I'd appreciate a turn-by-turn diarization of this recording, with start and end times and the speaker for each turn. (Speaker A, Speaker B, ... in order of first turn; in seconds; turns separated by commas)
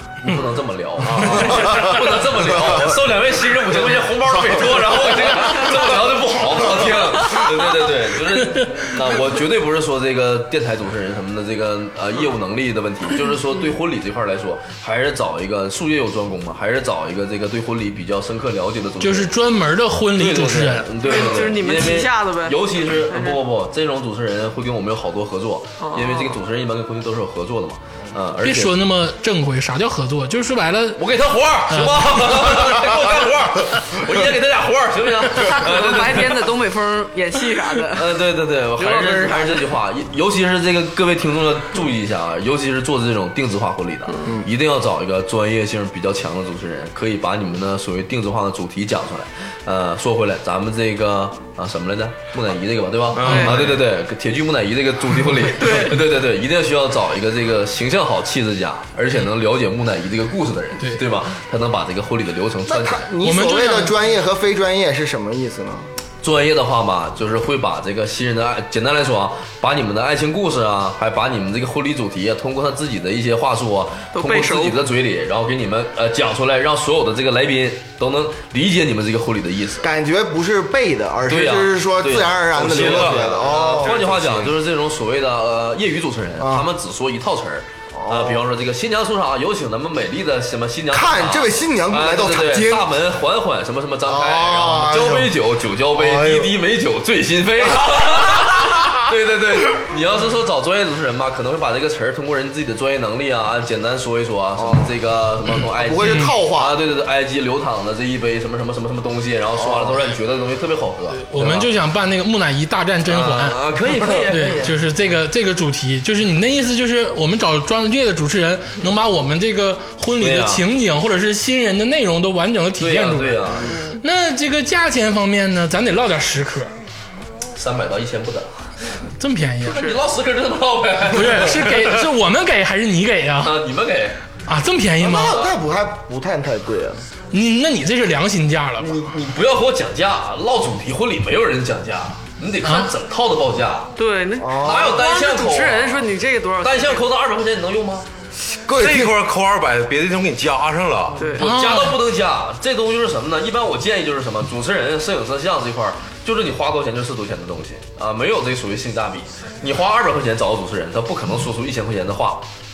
Speaker A: 0.2-19.3, Speaker B: 1.0-2.0, Speaker C: 19.0-20.9, Speaker A: 20.2-28.8, Speaker D: 21.1-23.4, Speaker D: 25.8-26.4, Speaker C: 28.4-31.0, Speaker A: 31.0-36.5, Speaker C: 31.7-32.5, Speaker D: 35.3-38.2, Speaker A: 37.9-63.1, Speaker D: 38.8-39.7, Speaker B: 53.1-53.8, Speaker D: 53.2-53.6, Speaker D: 55.6-56.0, Speaker E: 62.7-65.9, Speaker C: 63.2-64.0, Speaker A: 66.2-79.9, Speaker D: 74.1-74.8, Speaker E: 79.8-84.0, Speaker A: 81.3-111.7, Speaker B: 82.6-84.5, Speaker E: 86.4-86.7, Speaker E: 88.0-88.5, Speaker E: 90.9-92.9, Speaker E: 94.1-95.3, Speaker E: 95.9-96.6, Speaker E: 104.6-104.9, Speaker E: 105.6-106.8, Speaker C: 106.0-106.3, Speaker E: 109.6-110.0, Speaker C: 111.1-113.6, Speaker A: 113.1-114.8, Speaker C: 114.1-123.4, Speaker A: 120.2-120.6, Speaker A: 122.8-123.8, Speaker D: 123.7-124.0, Speaker C: 124.0-126.7, Speaker A: 127.5-128.5, Speaker C: 129.2-129.9, Speaker A: 129.6-132.0, Speaker C: 131.1-133.6, Speaker A: 133.4-134.2, Speaker C: 134.5-135.4, Speaker E: 135.0-137.0, Speaker A: 135.3-135.5, Speaker C: 137.3-139.0, Speaker A: 138.8-143.9, Speaker C: 142.6-142.9, Speaker D: 144.0-147.0, Speaker E: 144.4-145.0, Speaker A: 144.6-146.1, Speaker A: 146.6-148.1, Speaker E: 148.7-149.1, Speaker B: 148.7-151.2, Speaker D: 151.2-151.5, Speaker A: 151.3-162.5, Speaker C: 151.4-152.0